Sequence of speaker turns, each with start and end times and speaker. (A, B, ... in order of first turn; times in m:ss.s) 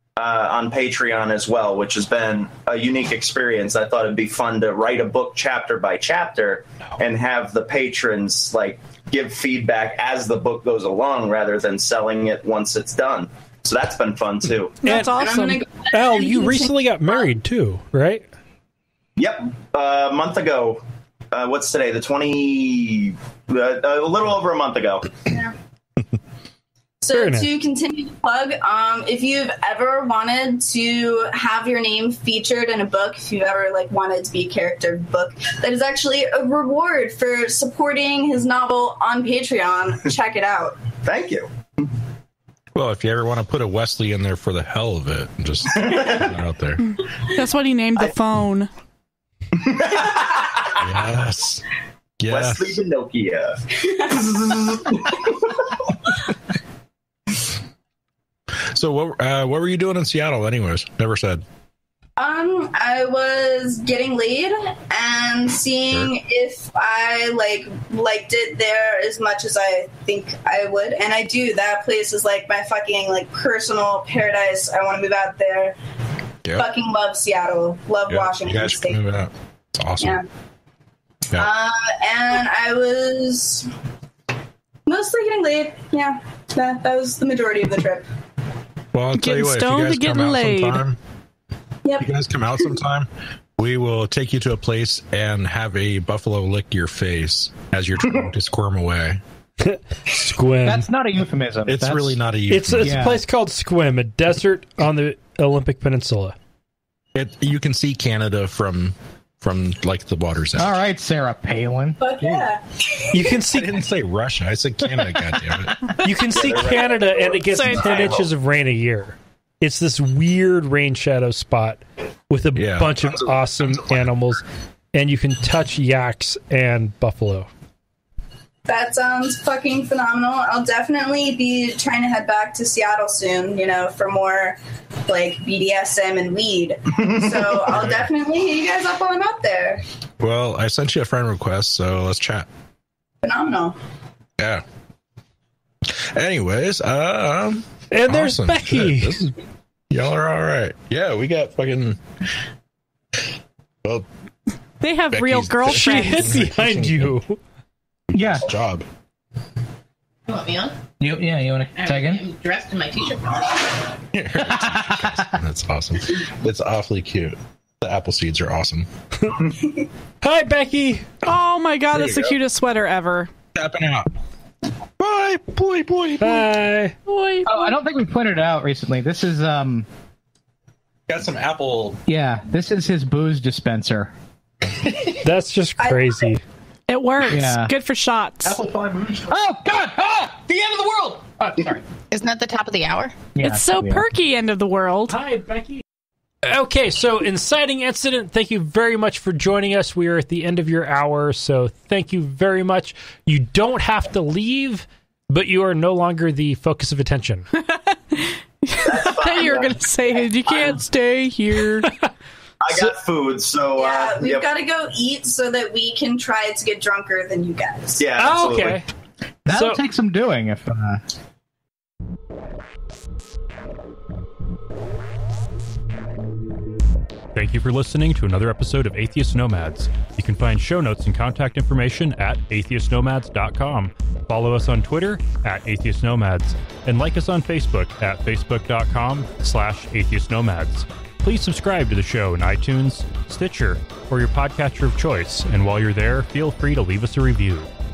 0:00.2-0:14.8 A
0:14.8-0:15.6 B
0:14.8-0:15.3 C
0:15.0-0:17.2 D
0:15.8-0:18.3 C
0:19.2-0:25.2 A
0:25.3-0:25.5 D
0:27.0-0:40.8 D
0:27.1-0:27.5 C
0:41.0-0:41.9 A
0:42.7-0:46.8 E
0:45.7-0:46.4 A
0:47.3-0:48.7 B
0:49.6-0:50.8 A
0:50.8-0:51.6 E
0:52.2-0:52.8 E
0:52.3-0:55.7 A
0:58.7-1:01.4 E
1:02.2-1:15.8 D
1:16.4-1:16.7 E
1:16.5-1:19.0 D
1:18.1-1:20.2 E
1:21.3-1:23.7 D
1:24.9-1:28.0 D
1:28.9-1:31.0 E
1:29.1-1:30.8 B
1:31.8-1:32.1 D
1:32.0-1:39.2 E
1:39.6-1:40.9 C
1:40.6-1:42.2 F
1:41.6-1:43.1 E
1:42.5-1:46.4 C
1:42.8-1:43.2 F
1:47.1-1:50.8 E
1:50.6-1:52.0 F
1:52.0-1:53.1 D
1:53.1-1:53.8 C
1:53.5-1:55.9 E
1:56.0-2:04.4 C
1:56.3-1:58.3 A
1:57.5-1:58.1 B
2:02.5-2:04.0 E
2:04.9-2:07.5 C
2:08.6-2:19.8 D
2:17.0-2:17.4 A
2:20.2-2:22.5 E
2:23.2-2:23.8 D
2:25.9-2:29.3 E
2:27.9-2:29.3 C
2:29.9-2:32.0 E
2:34.8-2:36.4 B
2:35.1-2:37.1 E
2:35.7-2:37.4 C
2:38.1-2:38.8 E
2:38.1-2:38.5 F
2:40.3-2:40.7 G
2:41.0-2:42.3 F
2:41.7-2:43.8 G
2:44.1-2:48.9 E
2:44.4-2:45.3 F
2:50.2-2:51.1 C
2:51.2-2:53.3 B
2:51.9-2:52.4 E
2:53.5-2:54.1 E
2:55.0-2:56.4 E
2:56.2-2:56.9 C
2:57.1-2:57.7 B
2:57.4-2:59.9 F
3:01.1-3:02.0 E
3:02.1-3:04.1 F
3:05.2-3:06.4 C
3:05.8-3:06.3 D
3:06.9-3:08.6 B
3:07.2-3:07.7 F
3:08.4-3:09.3 E
3:09.2-3:11.8 F
3:12.1-3:13.1 G
3:13.3-3:14.0 F
3:13.4-3:15.2 B
3:15.1-3:15.8 C
3:16.4-3:27.4 C
3:27.6-3:31.9 B
3:28.7-3:29.8 A
3:30.5-3:30.8 A
3:31.8-3:32.1 C
3:32.6-3:34.5 A
3:33.8-3:38.0 D
3:38.0-3:38.8 A
3:38.2-3:38.9 C
3:39.4-3:39.8 C
3:39.4-3:41.0 F
3:47.3-4:07.7 H